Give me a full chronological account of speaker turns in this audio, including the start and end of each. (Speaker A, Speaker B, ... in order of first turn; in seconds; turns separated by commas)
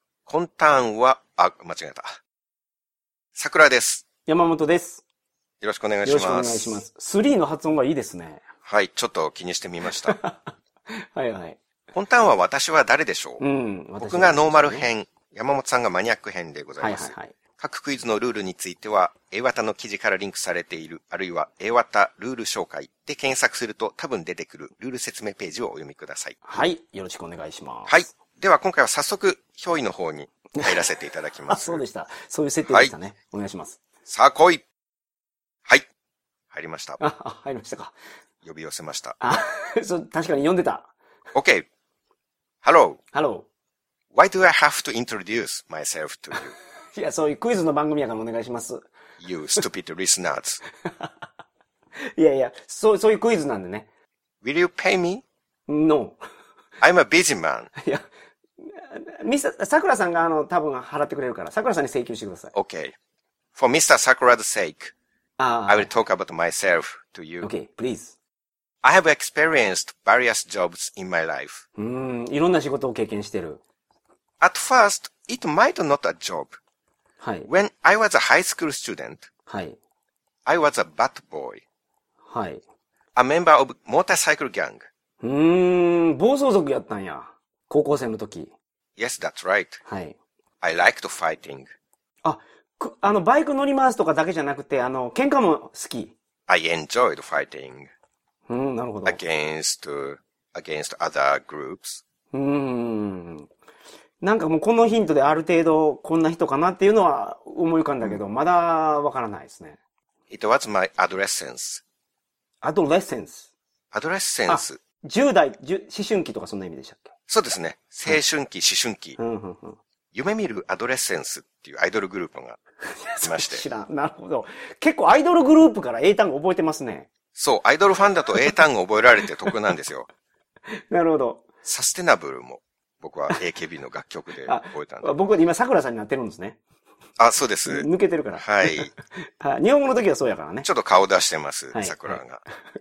Speaker A: 0.3-2.2, Speaker A: 3.4-4.0, Speaker B: 4.3-5.0, Speaker A: 5.6-6.8, Speaker B: 6.0-8.4, Speaker A: 8.7-10.2, Speaker B: 10.1-10.4, Speaker B: 10.9-11.6, Speaker A: 11.9-13.4, Speaker B: 13.4-14.9, Speaker A: 14.0-26.4, Speaker B: 16.8-17.4, Speaker B: 26.4-28.1, Speaker A: 27.9-31.8, Speaker B: 31.5-33.8, Speaker A: 32.6-32.9, Speaker A: 34.1-34.6, Speaker A: 36.5-37.0, Speaker B: 37.0-38.0, Speaker A: 38.4-39.2, Speaker B: 39.2-40.9, Speaker A: 41.3-41.7, Speaker A: 42.6-43.0, Speaker B: 43.1-43.5, Speaker A: 44.1-46.6, Speaker B: 46.9-48.9, Speaker A: 49.2-50.6, Speaker B: 50.8-51.1, Speaker B: 52.0-53.9, Speaker A: 54.4-55.2, Speaker B: 55.7-56.2, Speaker A: 56.8-57.7, Speaker B: 57.8-58.0, Speaker B: 58.6-62.5, Speaker A: 62.5-62.9, Speaker A: 63.5-64.9, Speaker B: 65.4-65.9, Speaker A: 65.7-67.5, Speaker B: 67.4-68.2, Speaker A: 68.8-71.7, Speaker B: 71.8-73.6, Speaker A: 74.4-76.6, Speaker B: 77.2-77.5, Speaker A: 77.5-79.3, Speaker B: 79.5-79.8, Speaker A: 80.5-81.6, Speaker B: 82.3-82.6, Speaker A: 83.2-84.9, Speaker B: 85.2-88.5, Speaker A: 89.0-89.8, Speaker B: 89.9-90.2, Speaker A: 90.6-91.7, Speaker B: 92.2-96.2, Speaker A: 96.5-97.9, Speaker B: 98.5-99.2, Speaker A: 99.0-102.0, Speaker B: 102.3-103.5, Speaker B: 104.2-109.8, Speaker A: 110.3-111.8, Speaker B: 112.6-113.5, Speaker A: 113.9-114.8, Speaker B: 114.5-117.1, Speaker A: 117.3-119.2, Speaker B: 119.2-119.8, Speaker A: 120.1-122.6, Speaker B: 122.9-127.1, Speaker A: 123.2-123.6, Speaker A: 127.3-130.1, Speaker B: 130.9-131.4, Speaker A: 131.6-135.1, Speaker B: 134.4-136.6, Speaker A: 137.2-138.9, Speaker B: 137.7-140.7, Speaker A: 140.6-142.4, Speaker B: 141.7-142.2